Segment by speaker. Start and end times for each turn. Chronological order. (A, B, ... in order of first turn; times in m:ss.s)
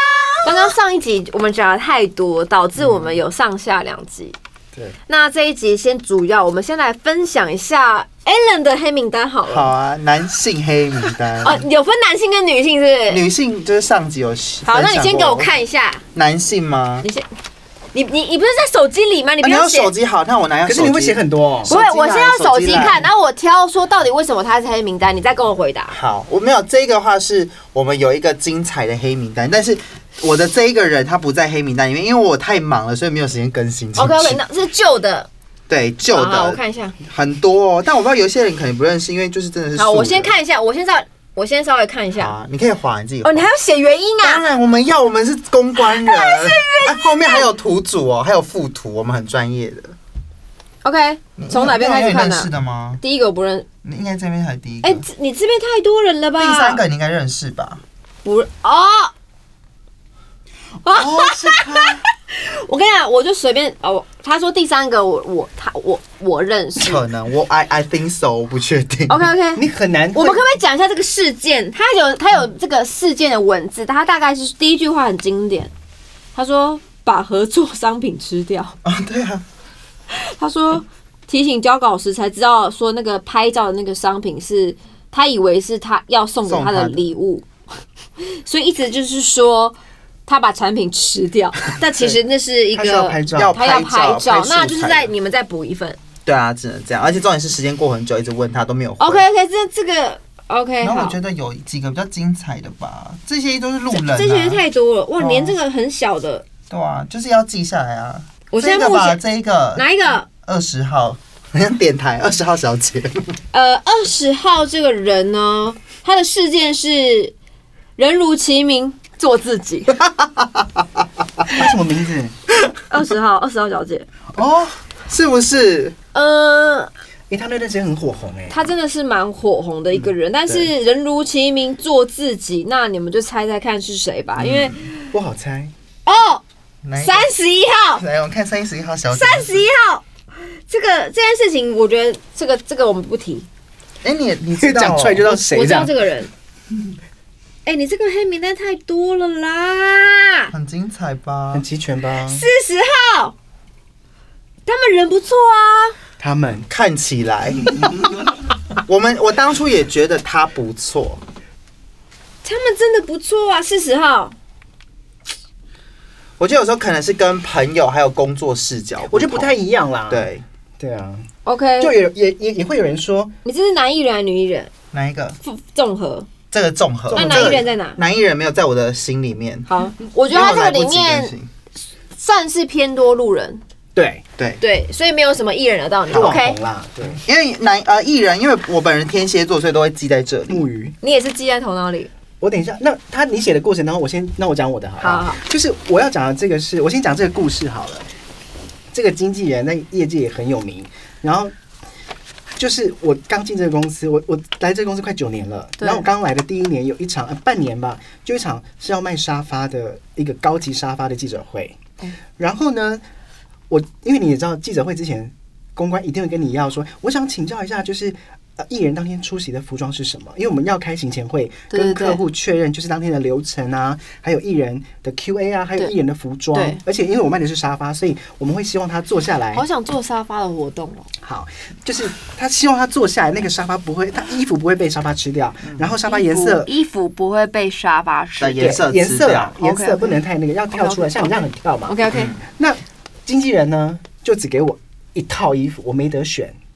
0:00.4-0:04.4 A
0:05.1-0:09.7 A
0:09.5-0:11.6 B
0:11.4-0:13.2 A
0:13.1-0:15.5 B
0:14.6-0:16.0 A
0:16.1-0:17.1 B
0:17.9-0:19.9 A
0:19.4-0:23.1 B
0:20.7-0:21.8 C
0:21.7-0:26.0 A
0:25.9-0:34.4 B
0:34.0-0:35.3 A
0:35.7-0:40.3 B
0:36.1-0:37.0 A
0:39.8-0:42.3 A
0:42.2-0:43.5 B
0:43.2-0:44.4 A
0:44.2-0:50.0 B
0:45.8-0:47.5 A
0:50.8-0:52.5 A
0:51.4-0:53.0 B
0:53.0-0:53.7 A
0:53.8-0:55.0 B
0:54.8-0:56.8 A
0:56.4-0:57.8 B
0:58.2-0:59.1 A
1:00.8-1:07.0 A
1:01.0-1:02.0 C
1:06.8-1:09.3 B
1:09.1-1:15.7 A
1:09.6-1:10.4 C
1:16.4-1:18.8 A
1:18.8-1:19.4 B
1:20.1-1:27.5 A
1:26.5-1:27.0 B
1:28.2-1:29.8 A
1:30.3-1:36.0 A
1:32.7-1:33.6 C
1:33.3-1:35.1 B
1:36.3-1:39.2 B
1:39.0-1:41.2 A
1:40.8-1:44.6 B
1:43.9-1:46.5 A
1:45.2-1:45.6 B
1:46.7-1:53.4 B
1:48.5-1:49.2 A
1:49.8-1:50.3 A
1:53.5-1:57.4 A
1:58.0-2:00.0 A
2:00.0-2:00.8 B
2:01.5-2:02.3 C
2:02.9-2:04.1 A
2:04.4-2:04.8 C
2:05.1-2:06.0 B
2:06.1-2:06.9 A
2:07.3-2:08.6 C
2:08.5-2:15.1 A
2:10.0-2:10.7 B
2:14.4-2:14.8 B
2:15.1-2:15.7 C
2:16.1-2:16.4 A
2:16.8-2:17.3 B
2:17.0-2:18.0 A
2:18.0-2:19.6 B
2:19.1-2:23.5 A
2:24.0-2:25.3 B
2:24.6-2:25.9 C
2:25.3-2:26.3 A
2:27.6-2:30.5 A
2:30.5-2:31.6 B
2:31.5-2:32.4 C
2:32.2-2:33.4 A
2:34.7-2:36.0 A
2:36.2-2:36.7 C
2:36.7-2:38.0 B
2:38.8-2:41.2 B
2:42.4-2:44.3 A
2:46.4-2:49.5 B
2:49.0-2:50.3 C
2:50.1-2:50.4 B
2:50.8-2:53.4 C
2:51.4-2:51.9 A
2:53.4-2:54.7 A
2:54.9-2:55.4 B
2:55.4-2:56.3 A
2:56.5-2:59.7 B
2:57.1-2:57.6 C
2:57.1-2:58.0 A
2:59.7-3:01.3 A
3:00.3-3:01.5 B
3:02.2-3:03.6 A
3:04.0-3:04.2 C
3:04.6-3:06.6 A
3:06.1-3:07.2 C
3:07.2-3:10.6 B
3:10.5-3:11.0 C
3:11.0-3:12.1 A
3:12.4-3:18.1 C
3:15.0-3:15.4 A
3:18.9-3:21.5 C
3:22.6-3:31.8 C
3:25.8-3:26.1 A
3:32.4-3:33.0 C
3:33.7-3:49.6 C
3:41.7-3:42.2 A
3:46.5-3:46.8 A
3:49.5-3:51.1 A
3:51.2-3:56.7 C
3:56.0-3:58.9 A
3:58.4-3:59.5 B
3:58.6-4:06.6 C
3:59.6-4:00.2 A
4:00.7-4:02.3 A
4:02.1-4:02.4 B